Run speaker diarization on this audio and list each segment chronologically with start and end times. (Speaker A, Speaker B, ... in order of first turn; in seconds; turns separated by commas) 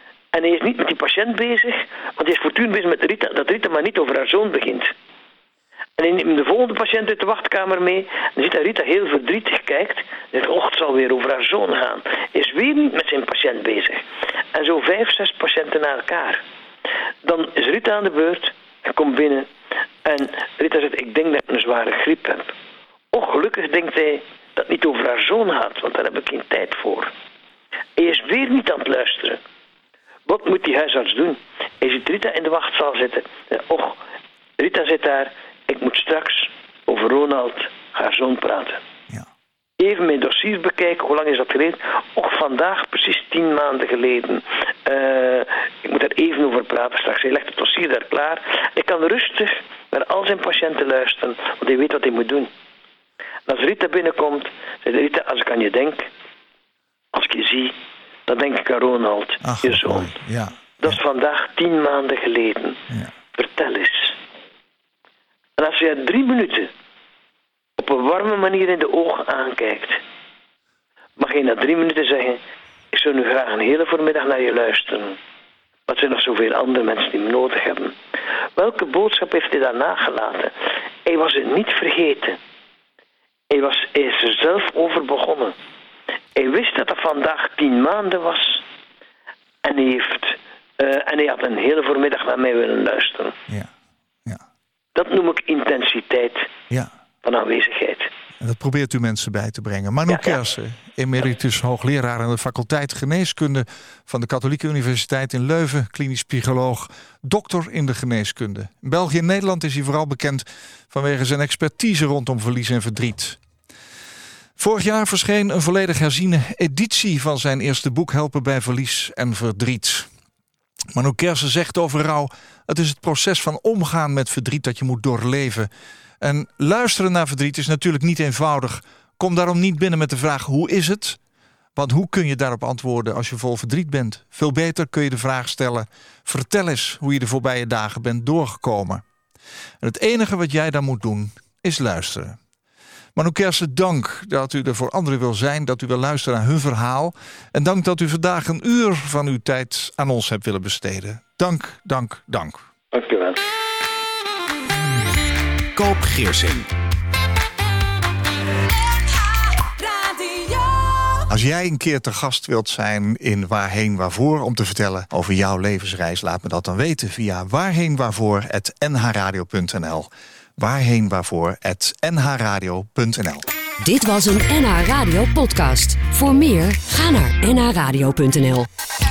Speaker A: 0.3-4.9, Speaker A: 6.0-16.4, Speaker A: 17.2-19.5, Speaker A: 20.0-22.6, Speaker A: 23.1-27.1, Speaker A: 28.0-29.4, Speaker A: 30.3-34.0, Speaker A: 34.6-38.8, Speaker A: 39.8-52.5, Speaker A: 53.5-56.1, Speaker A: 57.1-57.8, Speaker A: 58.3-60.1, Speaker B: 59.4-61.0, Speaker A: 60.8-62.8, Speaker A: 63.4-64.2, Speaker A: 65.6-66.7, Speaker A: 67.8-70.0, Speaker A: 71.2-72.4, Speaker A: 72.9-75.2, Speaker A: 75.9-78.0, Speaker A: 78.6-80.5, Speaker A: 81.1-82.4, Speaker A: 83.5-85.6, Speaker A: 86.3-88.7, Speaker A: 89.6-93.4, Speaker A: 95.0-96.5, Speaker A: 97.2-98.1, Speaker B: 98.4-113.4, Speaker A: 100.1-100.4, Speaker B: 114.6-120.1, Speaker B: 120.9-125.7, Speaker B: 126.2-131.2, Speaker B: 131.8-139.0, Speaker B: 139.8-142.4, Speaker B: 143.2-152.7, Speaker A: 152.9-153.4, Speaker C: 155.8-156.7, Speaker C: 158.8-161.3, Speaker B: 161.3-173.5, Speaker C: 173.8-178.7